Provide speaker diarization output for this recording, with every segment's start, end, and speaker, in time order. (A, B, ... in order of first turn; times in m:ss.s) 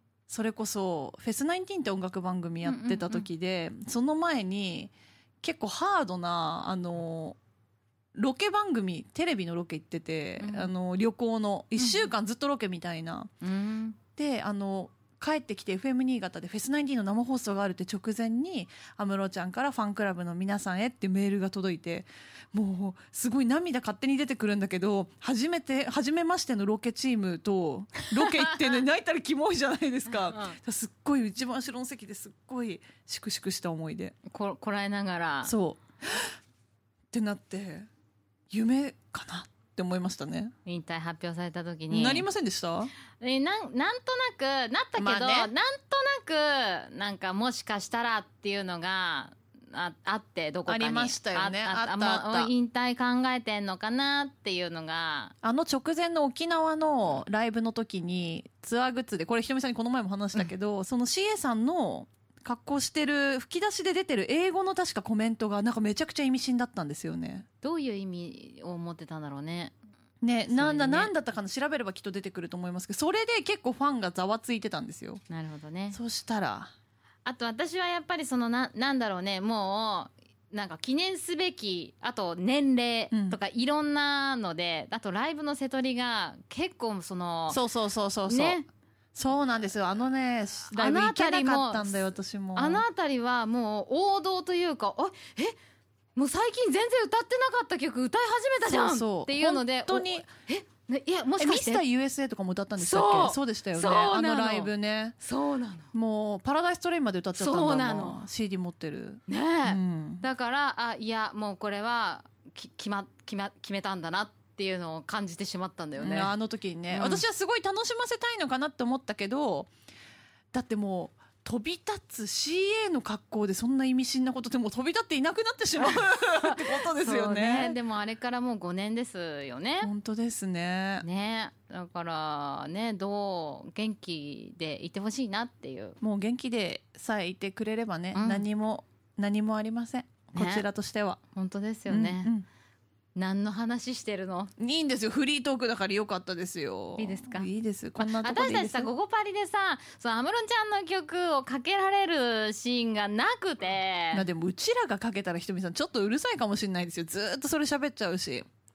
0:00.3-0:07.4 A
0:02.6-0:03.2 B
0:08.1-0:13.3 A
0:10.4-0:10.7 B
0:11.8-0:12.1 B
0:13.4-0:14.0 B
0:14.2-0:34.1 A
0:28.2-0:28.6 B
0:30.1-0:30.6 B
0:34.3-0:35.5 B
0:35.4-0:36.3 A
0:37.1-0:37.9 A
0:38.5-0:40.5 A
0:40.6-0:42.3 B
0:41.9-0:42.9 A
0:43.2-0:55.3 B
0:45.0-0:45.5 A
0:50.7-0:52.5 A
0:55.4-1:07.4 A
1:07.6-1:09.7 B
1:10.2-1:15.2 A
1:10.5-1:11.1 B
1:15.3-1:16.0 B
1:15.9-1:16.7 A
1:17.2-1:27.6 B
1:23.1-1:23.4 A
1:27.5-1:28.6 A
1:28.3-1:28.6 B
1:29.1-1:32.8 A
1:30.7-1:35.6 B
1:36.1-1:41.8 B
1:38.6-1:40.2 A
1:41.4-1:45.2 A
1:42.8-1:45.9 B
1:45.9-1:50.2 A
1:47.4-1:48.2 B
1:49.3-1:56.3 B
1:56.0-1:59.7 A
1:56.9-1:57.2 B
2:00.5-2:07.8 A
2:05.8-2:09.9 B
2:09.8-2:11.0 A
2:11.0-2:16.0 B
2:16.0-2:21.2 A
2:18.1-2:18.4 B
2:20.3-2:20.6 B
2:21.3-2:22.3 B
2:21.9-2:22.4 A
2:23.1-2:24.5 B
2:24.6-2:28.9 A
2:27.0-2:34.2 B
2:34.1-2:38.5 A